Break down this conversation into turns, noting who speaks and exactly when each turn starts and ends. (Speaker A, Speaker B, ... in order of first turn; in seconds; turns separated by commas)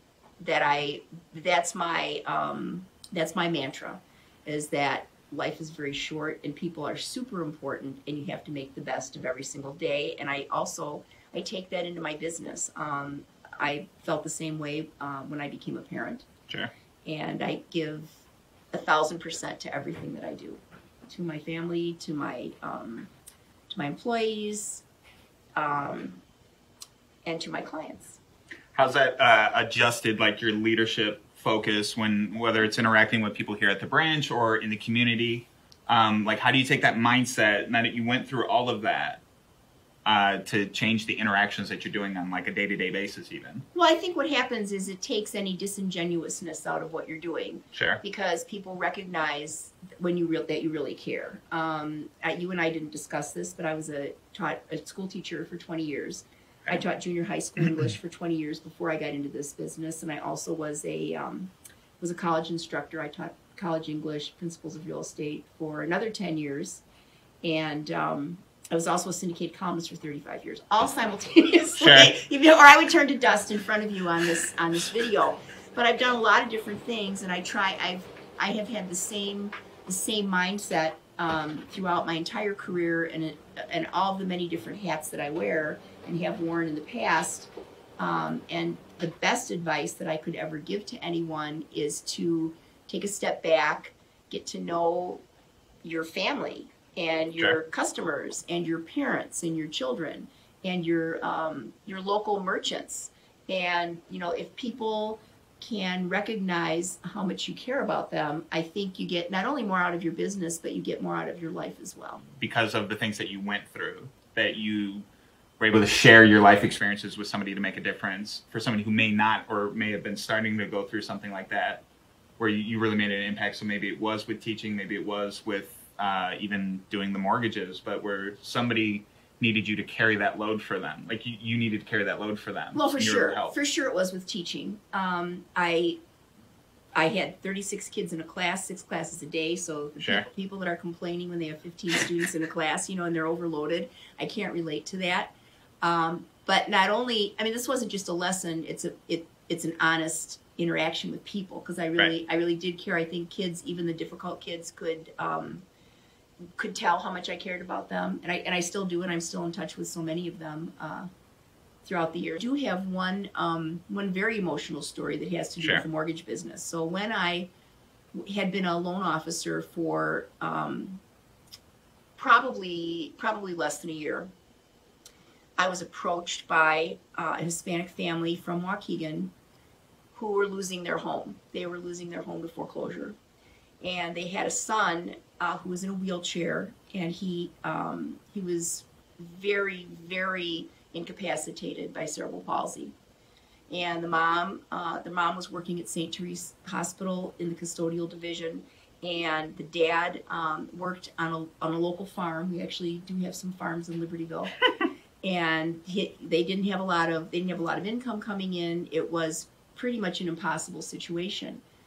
Speaker A: 0.4-16.2, Speaker A: 17.0-23.1, Speaker A: 23.7-24.8, Speaker A: 25.6-26.2, Speaker A: 27.2-28.2, Speaker B: 28.7-39.2, Speaker B: 40.0-43.6, Speaker A: 43.7-66.8, Speaker B: 47.7-48.0, Speaker A: 67.4-95.2, Speaker B: 71.8-72.1, Speaker A: 95.8-112.2, Speaker B: 112.4-115.0, Speaker B: 115.6-121.8, Speaker B: 122.4-133.5, Speaker A: 132.7-136.0, Speaker A: 136.9-155.6, Speaker B: 140.0-140.3, Speaker A: 156.6-161.1, Speaker A: 161.8-167.5, Speaker B: 165.6-165.8, Speaker A: 168.2-171.0, Speaker A: 172.2-174.3, Speaker A: 175.6-179.3, Speaker A: 180.1-183.1, Speaker A: 183.8-192.9, Speaker A: 193.7-204.6, Speaker A: 205.2-211.6